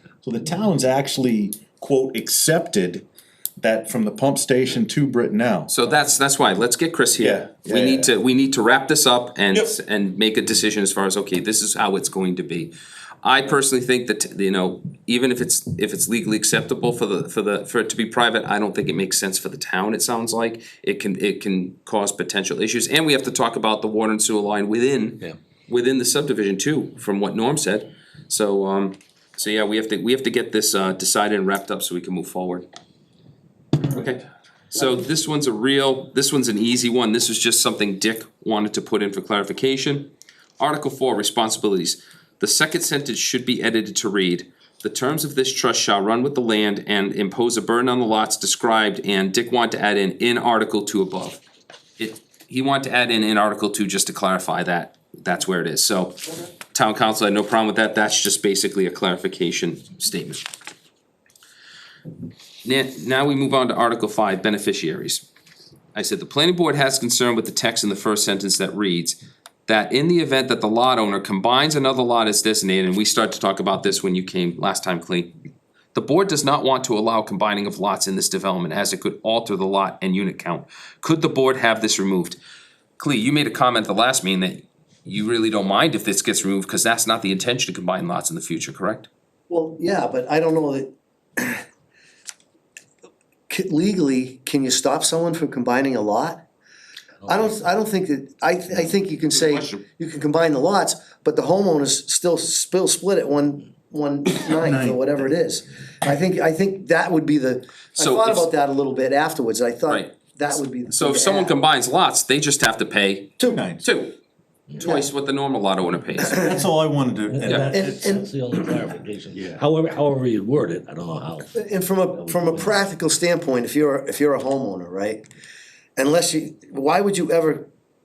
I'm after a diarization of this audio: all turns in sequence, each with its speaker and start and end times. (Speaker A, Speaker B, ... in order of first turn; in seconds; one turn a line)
Speaker A: 0.2-3.0
Speaker A: 3.6-5.7
Speaker B: 5.7-32.6
Speaker A: 7.2-8.1
Speaker B: 33.9-51.4
Speaker B: 52.0-60.4
Speaker B: 62.6-65.2
Speaker B: 65.9-75.3
Speaker B: 75.9-82.4
Speaker B: 83.0-89.1
Speaker C: 89.5-91.6
Speaker C: 93.5-96.4
Speaker C: 97.2-111.6
Speaker B: 99.3-99.8
Speaker A: 104.6-105.1
Speaker B: 108.0-108.5
Speaker B: 109.9-110.1
Speaker B: 110.9-114.1
Speaker A: 113.4-113.8
Speaker B: 114.8-116.5
Speaker C: 114.8-115.1
Speaker A: 116.3-117.8
Speaker D: 117.4-121.5
Speaker C: 117.7-118.3
Speaker C: 121.5-125.2
Speaker D: 122.2-122.7
Speaker C: 126.0-127.7